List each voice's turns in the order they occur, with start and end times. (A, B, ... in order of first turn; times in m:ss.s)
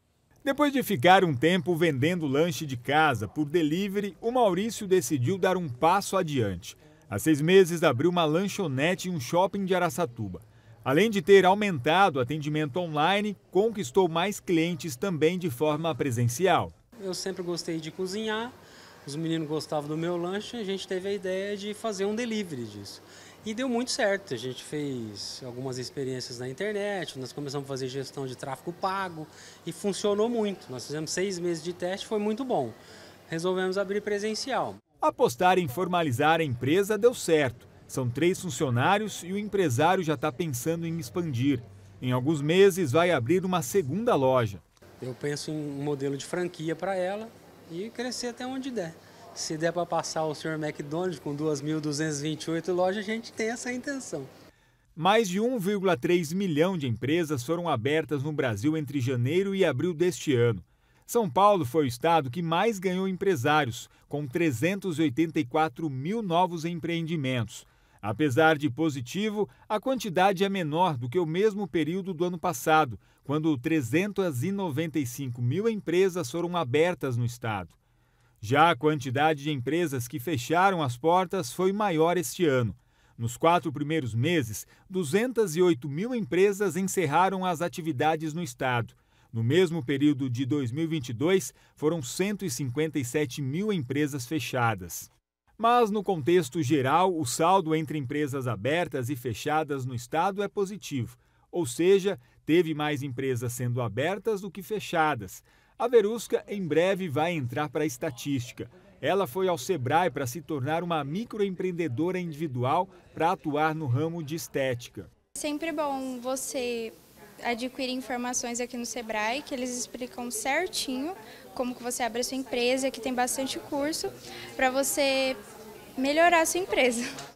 0:00.4-0:16.7 A
0:17.0-0:34.8 B
0:35.0-0:44.6 A
0:45.0-0:54.3 B
0:55.0-1:17.8 A
1:18.4-1:55.1 A
1:55.4-2:05.4 C
2:06.0-2:07.1 C